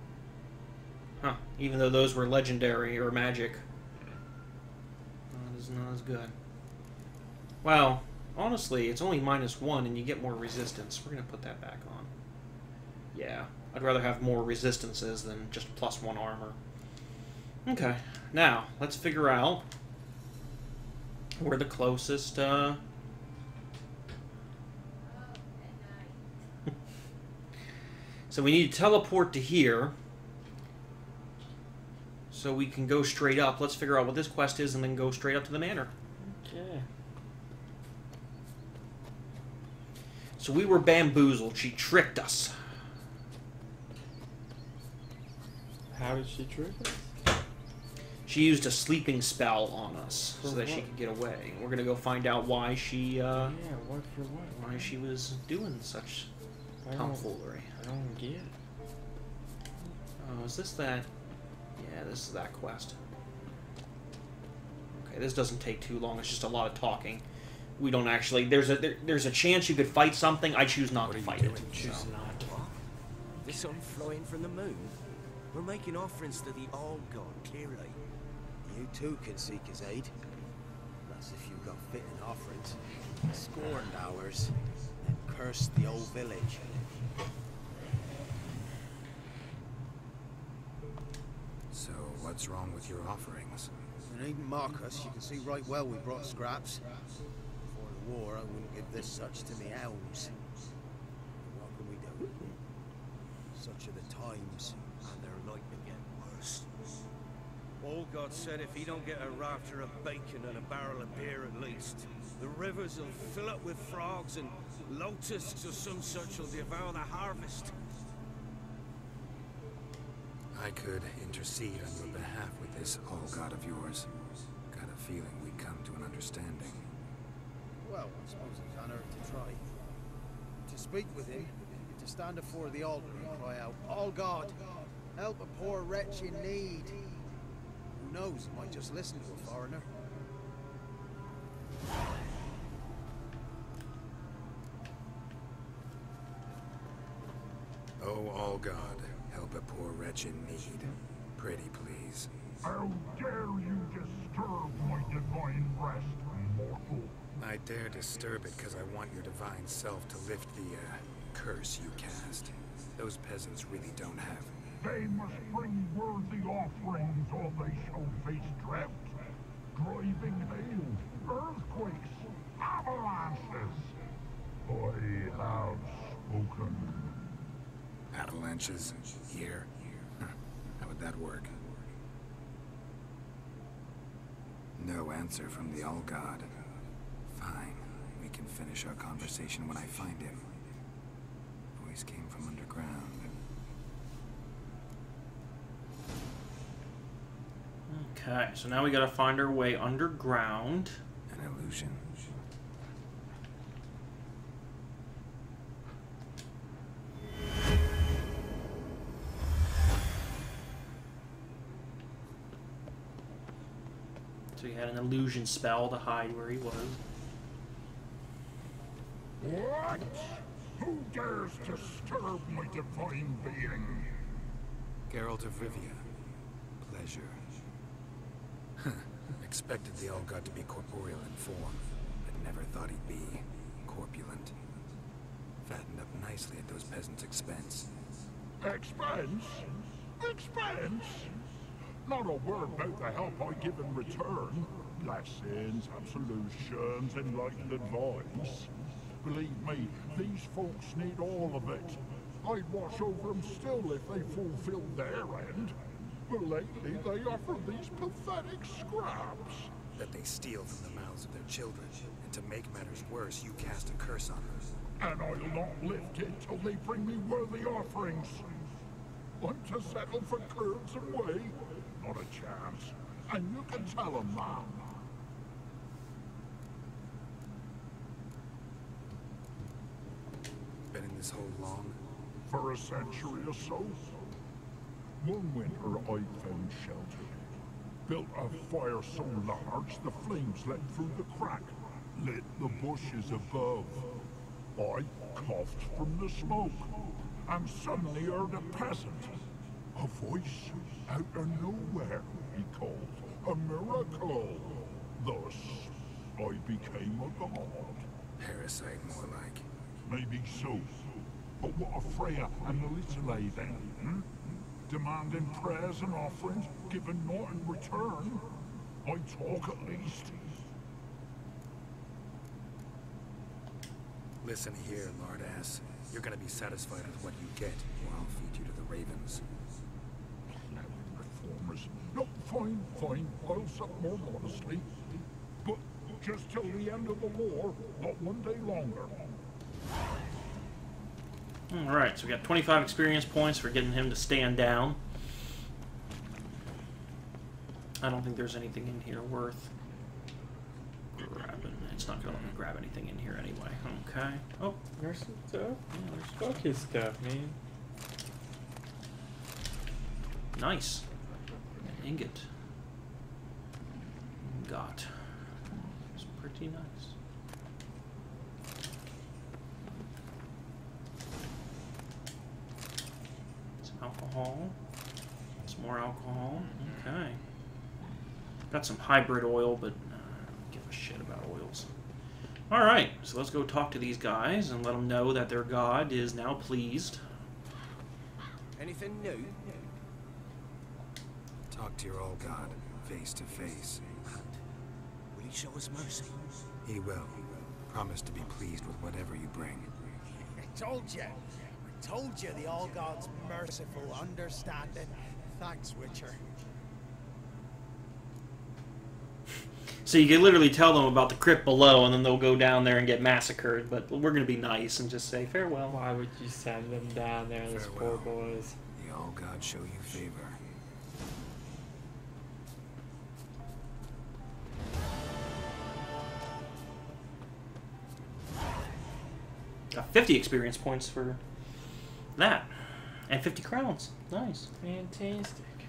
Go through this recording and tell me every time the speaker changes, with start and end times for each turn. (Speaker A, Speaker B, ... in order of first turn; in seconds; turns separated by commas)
Speaker A: 1.2-3.6, Speaker A: 5.3-6.3, Speaker A: 7.6-12.1, Speaker A: 13.1-16.6, Speaker A: 17.6-19.6, Speaker A: 21.4-22.8, Speaker A: 28.3-29.9, Speaker A: 32.3-35.9, Speaker B: 36.3-36.9, Speaker A: 40.4-42.5, Speaker B: 45.9-47.0, Speaker A: 48.2-53.5, Speaker B: 50.4-50.9, Speaker B: 53.4-54.9, Speaker A: 54.5-56.3, Speaker B: 56.8-58.5, Speaker A: 56.9-57.7, Speaker A: 60.2-61.1, Speaker A: 61.8-63.0, Speaker A: 64.9-67.2, Speaker A: 67.8-72.5, Speaker C: 71.0-72.1, Speaker D: 72.4-72.7, Speaker D: 73.4-75.0, Speaker D: 75.5-78.0, Speaker E: 78.6-80.1, Speaker E: 81.0-86.8, Speaker C: 91.7-93.7, Speaker E: 94.1-96.9, Speaker E: 97.7-100.3, Speaker E: 101.4-102.5, Speaker E: 103.5-104.8, Speaker D: 105.0-106.7, Speaker D: 107.8-117.7, Speaker C: 120.5-124.1, Speaker C: 124.7-126.8, Speaker E: 127.8-129.6, Speaker E: 130.7-137.0, Speaker E: 138.0-139.9, Speaker C: 148.0-152.3, Speaker F: 152.6-157.2, Speaker C: 157.4-164.6, Speaker F: 164.8-169.2, Speaker F: 169.7-173.9, Speaker F: 174.6-177.2, Speaker C: 178.1-179.7, Speaker C: 180.8-181.6, Speaker C: 184.8-186.5, Speaker C: 187.3-190.5, Speaker C: 191.8-193.3, Speaker A: 197.9-201.0, Speaker C: 201.3-202.1, Speaker A: 214.5-217.0, Speaker F: 219.4-224.1, Speaker C: 225.1-226.0, Speaker C: 226.8-227.4, Speaker C: 228.8-234.5, Speaker C: 235.6-237.9, Speaker F: 238.6-241.3, Speaker F: 242.0-255.8, Speaker F: 256.3-259.7, Speaker C: 259.9-264.7, Speaker F: 265.0-268.5, Speaker F: 269.4-274.9, Speaker C: 280.9-282.0, Speaker F: 282.4-284.2, Speaker F: 285.2-287.4, Speaker F: 288.1-294.1, Speaker F: 294.7-299.4, Speaker F: 299.9-308.1, Speaker C: 308.4-309.6, Speaker F: 310.0-311.1, Speaker F: 311.6-314.3, Speaker F: 314.9-318.5, Speaker F: 319.0-320.6, Speaker C: 324.4-329.4, Speaker F: 330.7-334.9, Speaker F: 335.6-339.2, Speaker A: 341.7-345.0, Speaker A: 348.0-349.7, Speaker A: 351.1-354.8, Speaker B: 355.0-355.8, Speaker A: 355.9-356.7, Speaker B: 356.3-357.6, Speaker A: 360.5-361.1, Speaker A: 361.8-362.5, Speaker A: 364.4-365.4, Speaker A: 366.1-367.1, Speaker A: 373.8-374.7, Speaker A: 375.6-377.4, Speaker A: 378.7-381.9, Speaker A: 382.7-387.2, Speaker D: 388.8-389.9, Speaker C: 391.7-394.1, Speaker D: 395.3-396.4, Speaker C: 396.8-399.9, Speaker E: 400.4-406.4, Speaker A: 410.0-416.0, Speaker B: 415.9-418.7, Speaker C: 417.6-418.4, Speaker C: 418.9-420.6, Speaker A: 429.9-431.4, Speaker A: 432.4-434.7, Speaker B: 434.8-435.8